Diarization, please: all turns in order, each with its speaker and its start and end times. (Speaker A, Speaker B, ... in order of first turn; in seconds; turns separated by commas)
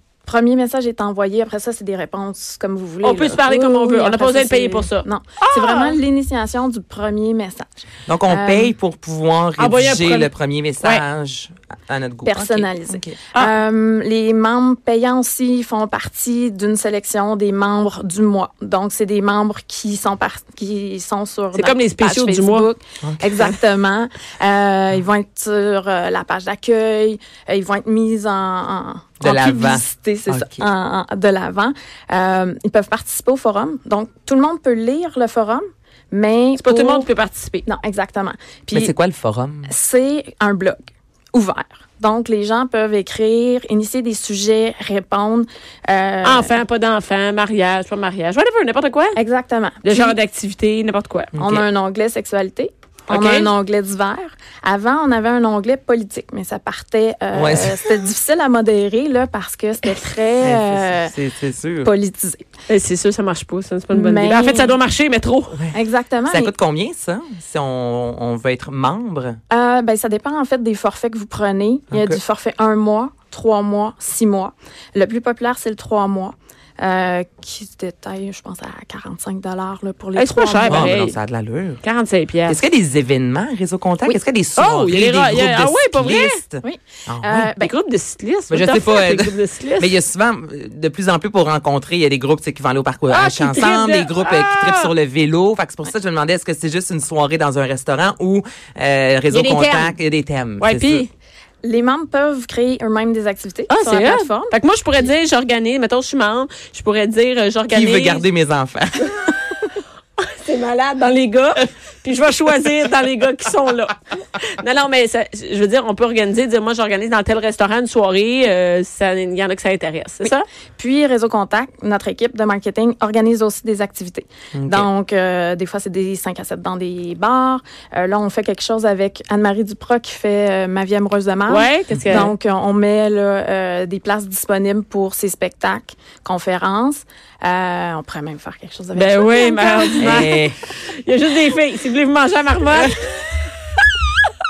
Speaker A: 0.2-8.7, Speaker B: 3.0-6.0, Speaker C: 8.1-13.2, Speaker B: 9.6-11.0, Speaker A: 12.2-37.1, Speaker B: 21.5-22.7, Speaker C: 23.0-23.4, Speaker C: 29.2-30.6, Speaker B: 36.6-37.6, Speaker A: 37.6-38.9, Speaker C: 38.7-39.7, Speaker A: 39.7-46.5, Speaker B: 46.2-49.2, Speaker A: 49.1-50.1, Speaker B: 49.8-51.4, Speaker C: 51.3-51.6, Speaker A: 51.4-61.1, Speaker B: 53.1-53.5, Speaker C: 57.3-57.8, Speaker C: 60.4-61.9, Speaker A: 61.8-62.5, Speaker B: 62.7-65.6, Speaker A: 63.9-64.7, Speaker C: 65.5-69.4, Speaker A: 65.7-66.5, Speaker A: 69.5-81.0, Speaker C: 71.9-72.2, Speaker B: 80.2-81.1, Speaker C: 80.7-81.8, Speaker B: 81.8-82.6, Speaker C: 82.5-87.5, Speaker B: 84.0-86.4, Speaker A: 86.6-87.7, Speaker B: 87.6-89.9, Speaker C: 88.5-101.0, Speaker B: 93.1-94.9, Speaker B: 99.3-99.9, Speaker B: 100.6-101.1, Speaker A: 101.6-105.0, Speaker B: 103.7-108.2, Speaker C: 107.7-109.1, Speaker B: 110.2-120.5, Speaker A: 120.2-140.4, Speaker C: 124.5-124.9, Speaker B: 131.5-132.3, Speaker C: 131.9-132.2, Speaker B: 138.9-143.4, Speaker C: 140.0-140.6